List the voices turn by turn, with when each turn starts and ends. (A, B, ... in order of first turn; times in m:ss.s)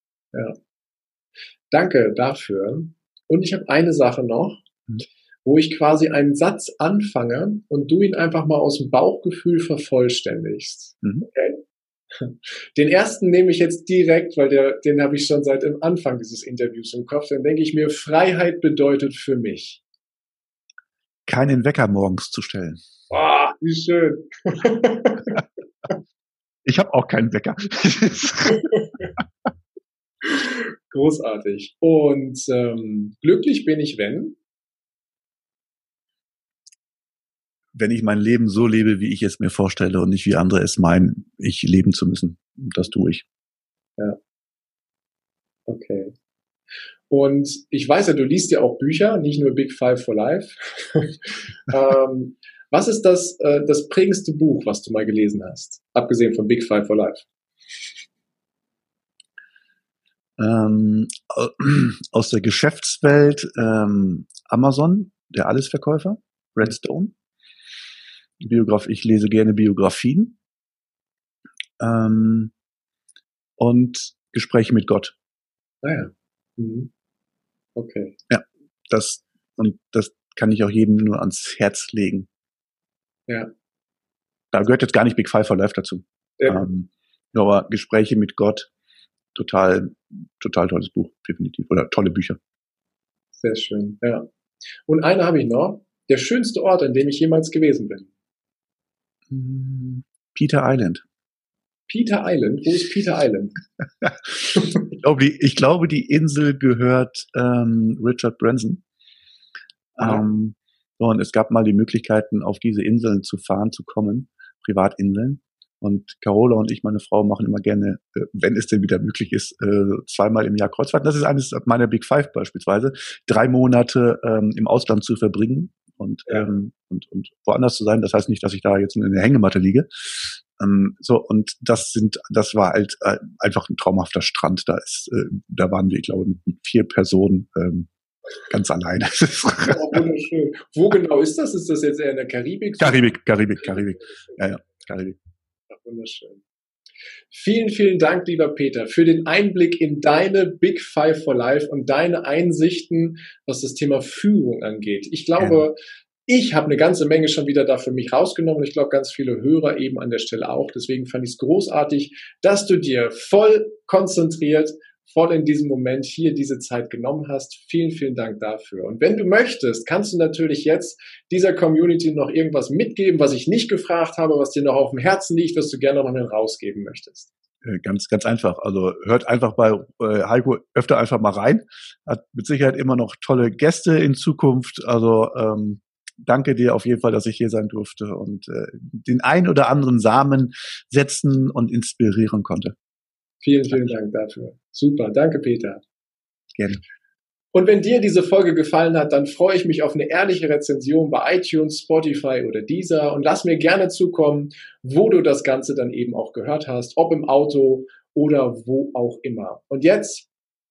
0:01.7-0:04.6 A
0:05.4-0:11.6 A
0:12.1-0:19.8 A
0:21.3-0:22.8 B
0:23.1-0:25.9 A
0:26.7-0:29.2 B
0:28.5-0:29.1 A
0:30.2-0:34.4 A
0:37.8-0:43.2 B
0:45.7-0:46.1 A
0:47.1-0:57.3 A
1:00.4-1:07.1 B
1:08.4-1:10.4 B
1:11.8-1:12.5 B
1:13.6-1:15.2 B
1:15.8-1:16.9 A
1:17.8-1:18.2 A
1:18.3-1:22.3 B
1:24.5-1:28.7 B
1:26.4-1:26.6 A
1:29.4-1:32.4 B
1:33.4-1:34.3 A
1:34.9-1:38.1 A
1:39.3-1:41.0 B
1:41.9-1:43.6 A
1:44.9-1:48.8 B
1:50.0-2:17.9 B
2:18.5-2:19.9 B
2:19.7-2:23.0 A
2:22.8-2:25.2 B
2:23.6-2:24.4 A
2:25.7-2:26.4 A
2:27.3-2:35.8 A
2:36.3-2:57.3 A
2:57.6-3:12.8 B
3:13.4-3:15.8 A
3:17.5-3:30.3 A